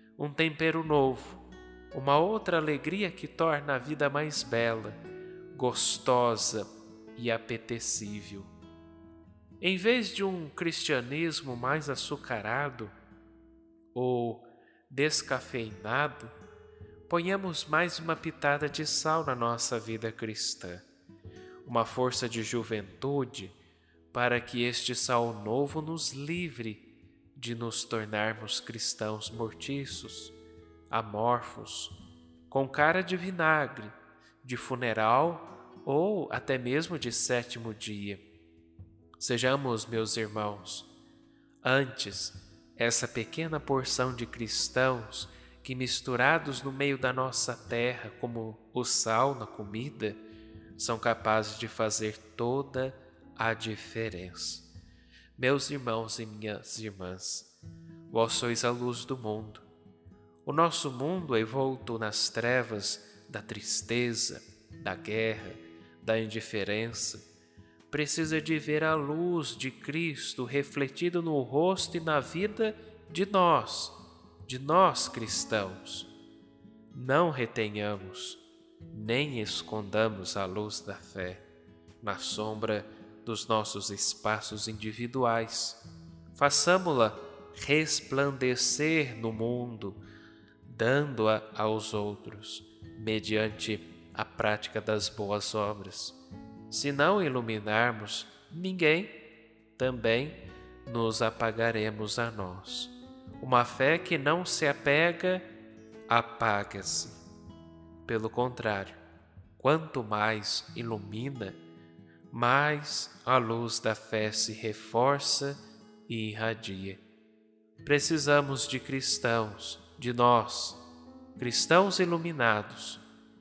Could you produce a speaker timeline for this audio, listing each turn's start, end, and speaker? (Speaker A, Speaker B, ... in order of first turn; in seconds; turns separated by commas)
Speaker A: 0.2-5.0, Speaker A: 5.5-8.5, Speaker A: 9.6-12.9, Speaker A: 13.9-16.3, Speaker A: 17.1-20.9, Speaker A: 21.6-23.6, Speaker A: 24.1-30.4, Speaker A: 30.9-31.9, Speaker A: 32.5-38.2, Speaker A: 39.2-40.9, Speaker A: 41.6-50.2, Speaker A: 50.8-54.7, Speaker A: 55.4-57.5, Speaker A: 58.1-59.6, Speaker A: 60.4-67.2, Speaker A: 67.9-76.1, Speaker A: 76.9-81.4, Speaker A: 82.0-85.8, Speaker A: 86.3-90.0, Speaker A: 90.6-96.2, Speaker A: 96.7-99.1, Speaker A: 99.8-105.5, Speaker A: 106.1-107.2, Speaker A: 108.0-109.0, Speaker A: 109.6-111.6, Speaker A: 112.3-117.0, Speaker A: 117.8-120.8, Speaker A: 121.4-123.0